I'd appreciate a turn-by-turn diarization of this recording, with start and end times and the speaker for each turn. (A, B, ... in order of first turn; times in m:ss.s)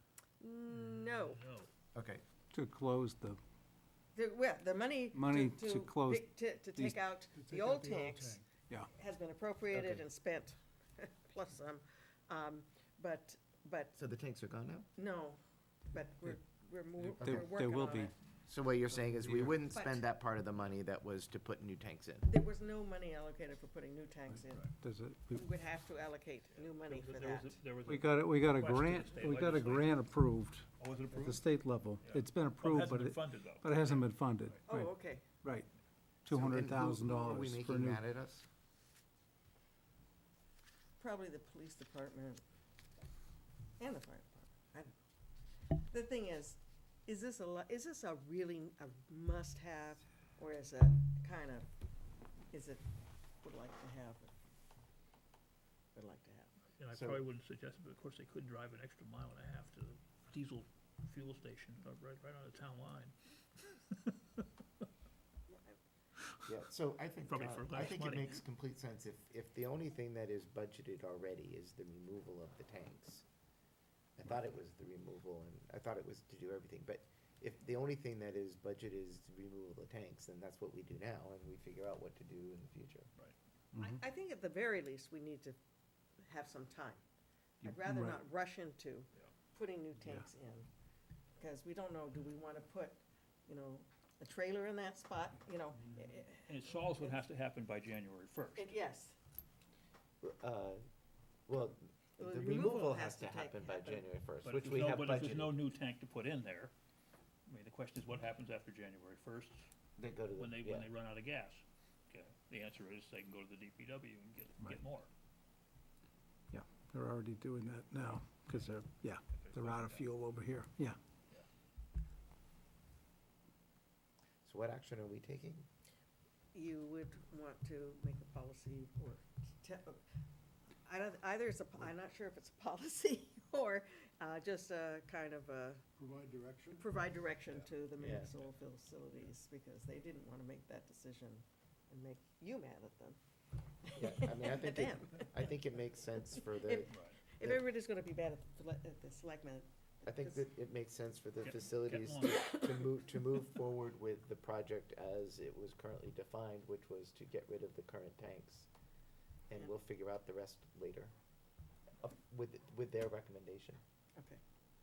0:00.4-0:01.4 A
0:01.3-0:01.7 B
0:01.9-0:02.2 C
0:02.5-0:03.4 D
0:04.2-0:13.9 A
0:05.1-0:07.0 D
0:07.3-0:08.6 E
0:08.6-0:08.9 D
0:09.7-0:10.0 C
0:14.0-0:14.9 C
0:15.0-0:15.4 A
0:15.9-0:18.1 A
0:17.1-0:18.1 D
0:18.5-0:22.3 C
0:19.7-0:20.0 A
0:22.3-0:24.7 A
0:24.8-0:25.5 D
0:25.3-0:27.6 A
0:26.8-0:30.0 B
0:27.9-0:34.9 D
0:30.8-0:31.4 B
0:32.0-0:34.6 B
0:34.7-0:35.3 A
0:35.4-0:35.7 D
0:36.3-0:38.0 D
0:36.3-0:38.4 C
0:41.0-0:42.4 A
0:43.8-0:45.0 A
0:45.7-0:51.7 A
0:52.5-0:52.8 A
0:53.4-0:54.3 A
0:56.0-0:56.6 A
0:56.8-1:04.5 B
0:56.9-0:57.2 C
1:05.5-1:05.8 A
1:06.5-1:13.2 C
1:07.3-1:08.4 B
1:14.2-1:23.1 C
1:23.8-1:25.6 A
1:26.2-1:27.0 A
1:27.6-1:30.7 A
1:27.7-1:28.2 D
1:31.4-1:37.2 A
1:36.4-1:38.7 B
1:38.6-1:39.2 A
1:40.2-1:40.8 C
1:41.5-1:45.6 C
1:42.2-1:44.1 A
1:44.4-1:46.7 B
1:47.5-1:49.7 B
1:50.0-1:50.9 C
1:50.3-1:55.1 B
1:56.5-2:01.0 D
1:59.3-2:00.1 B
2:04.4-2:05.7 C
2:06.5-2:10.0 A
2:10.8-2:15.9 A
2:16.0-2:16.9 E
2:16.7-2:23.2 A
2:18.0-2:18.4 C
2:23.8-2:25.5 A
2:24.0-2:27.6 C
2:26.3-2:30.4 A
2:26.9-2:27.2 B
2:30.1-2:38.7 C
2:31.4-2:32.4 B
2:32.4-2:32.8 A
2:39.5-2:41.1 C
2:42.0-2:43.8 C
2:44.2-2:44.4 A